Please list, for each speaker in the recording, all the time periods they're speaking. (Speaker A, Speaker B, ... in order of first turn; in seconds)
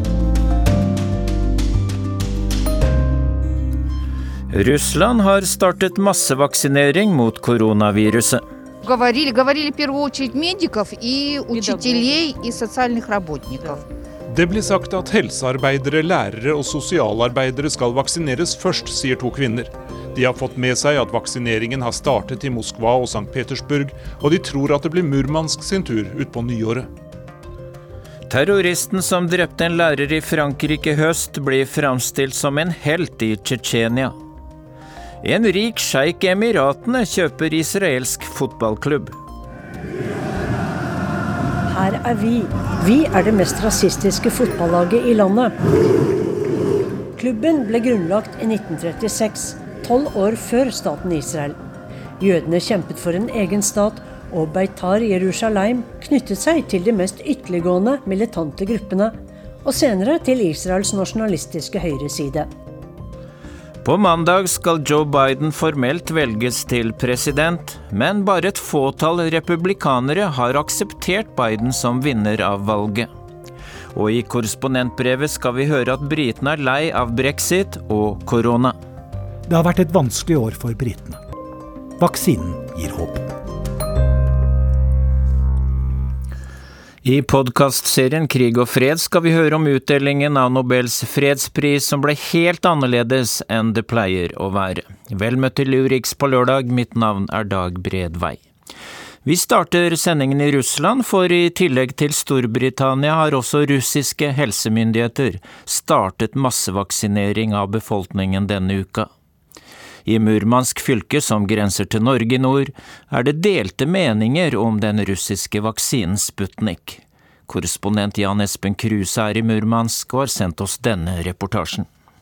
Speaker A: 4.5-8.4, 28.3-34.1, 35.2-39.1, 63.8-73.1, 73.9-78.8, 87.0-98.4, 99.2-109.1, 110.0-121.9
Speaker B: 8.8-13.8
Speaker C: 14.3-26.9
Speaker D: 41.7-45.5, 47.2-51.6, 52.2-62.5
Speaker E: 79.5-81.2, 82.0-83.3